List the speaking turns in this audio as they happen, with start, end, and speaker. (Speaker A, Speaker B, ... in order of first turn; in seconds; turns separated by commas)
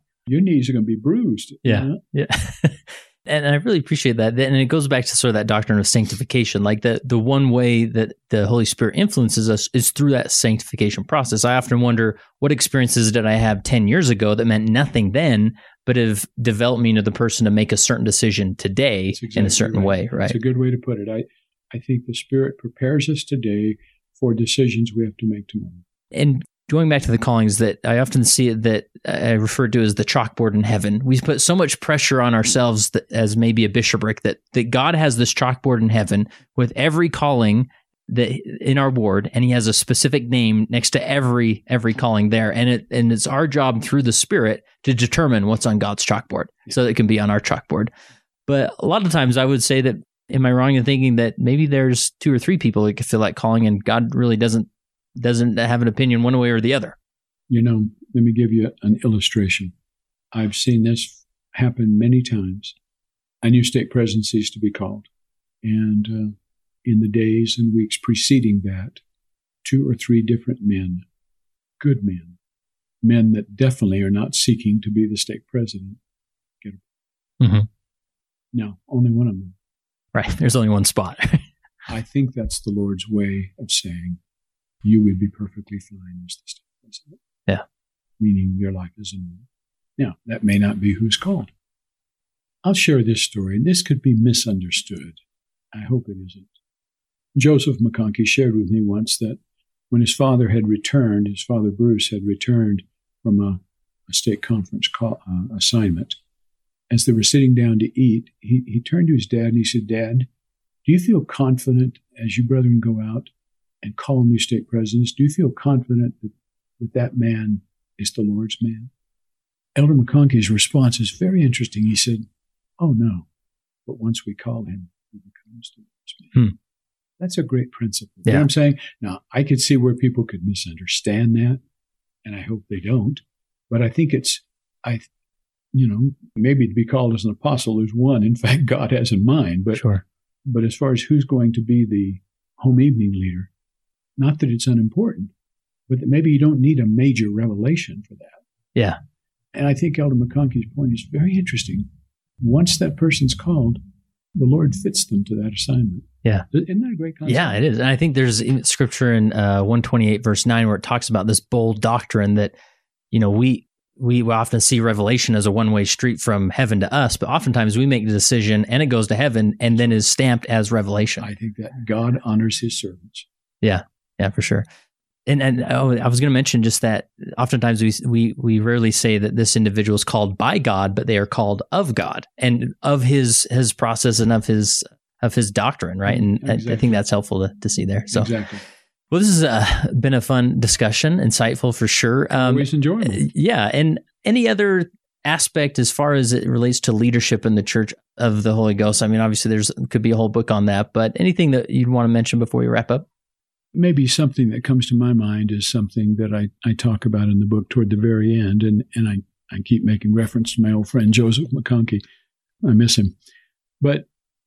Speaker A: 0.3-2.0, Speaker B: 1.6-20.4, Speaker A: 19.1-25.8, Speaker B: 26.1-47.9, Speaker B: 48.5-57.0, Speaker A: 57.5-59.7, Speaker A: 60.3-62.8, Speaker A: 63.4-65.1, Speaker A: 65.6-69.0, Speaker A: 69.6-71.1, Speaker A: 71.8-72.4, Speaker A: 73.0-76.0, Speaker B: 77.4-77.7, Speaker A: 78.5-79.6, Speaker B: 80.1-81.5, Speaker A: 81.9-84.2, Speaker A: 84.8-87.2, Speaker A: 88.2-89.5, Speaker A: 90.0-91.5, Speaker A: 92.6-95.2, Speaker A: 95.7-96.5, Speaker A: 97.3-99.4, Speaker A: 99.9-106.2, Speaker A: 106.9-110.3, Speaker A: 110.8-113.3, Speaker A: 113.8-118.9, Speaker A: 119.8-122.3, Speaker A: 122.8-123.3, Speaker A: 123.9-126.4, Speaker A: 127.2-131.6, Speaker A: 132.2-135.1, Speaker A: 135.7-139.9, Speaker B: 139.8-140.0, Speaker A: 140.4-143.5, Speaker A: 144.2-145.3, Speaker A: 145.9-148.4, Speaker A: 149.5-151.9, Speaker A: 152.4-153.8, Speaker A: 154.3-157.6, Speaker B: 157.3-162.5, Speaker B: 163.1-171.3, Speaker A: 171.2-173.3, Speaker B: 173.6-174.7, Speaker B: 175.3-188.3, Speaker A: 186.1-187.0, Speaker A: 188.1-188.6, Speaker B: 189.1-203.1, Speaker A: 192.3-193.2, Speaker A: 203.7-212.0, Speaker A: 212.6-213.2, Speaker A: 213.8-214.1